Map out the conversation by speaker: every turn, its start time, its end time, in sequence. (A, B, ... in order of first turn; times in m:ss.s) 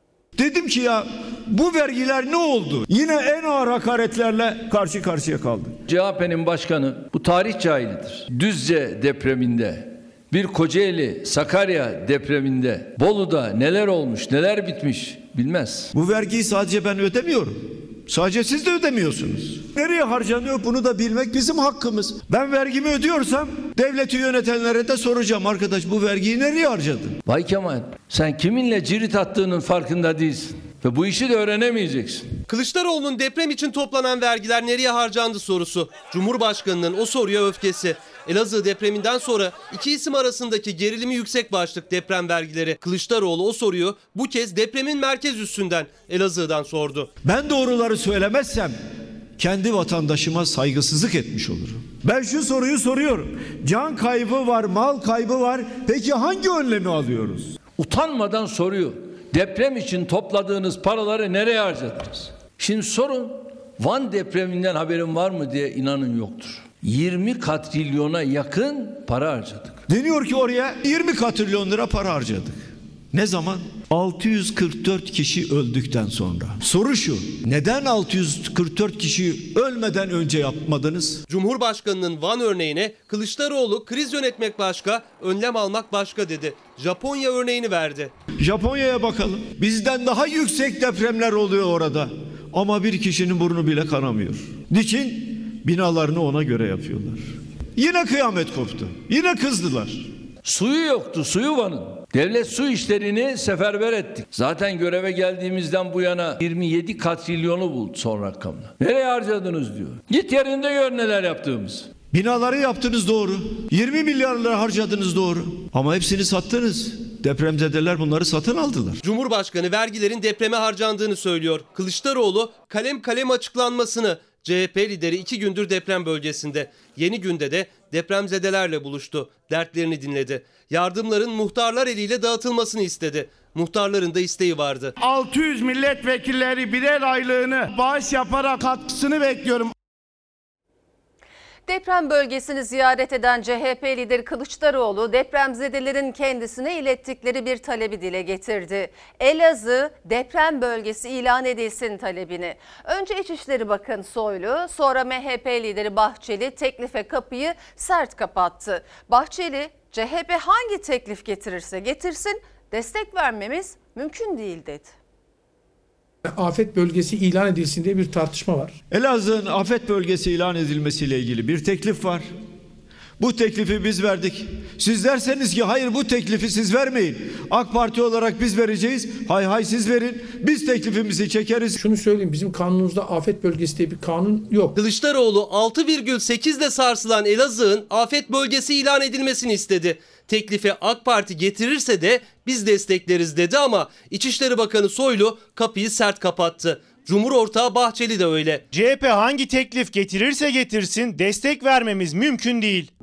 0:00.4-0:05.8 A
0:05.9-0:15.9 B
0:15.9-0:27.2 A
0:27.2-0:32.3 B
0:32.5-0:47.1 C
0:47.2-0:48.8 A
0:49.4-0:57.5 A
0:57.8-1:09.8 B
1:09.9-1:21.2 A
1:21.3-1:28.1 C
1:28.4-1:40.1 A
1:40.4-1:51.9 B
1:52.1-1:59.0 A
1:59.0-2:14.9 C
2:15.0-2:19.7 D
2:21.7-2:44.9 E
2:46.2-2:48.8 F
2:48.9-2:52.3 A
2:53.2-3:01.8 A
3:01.8-3:04.7 F
3:04.8-3:18.6 C
3:18.7-3:22.9 G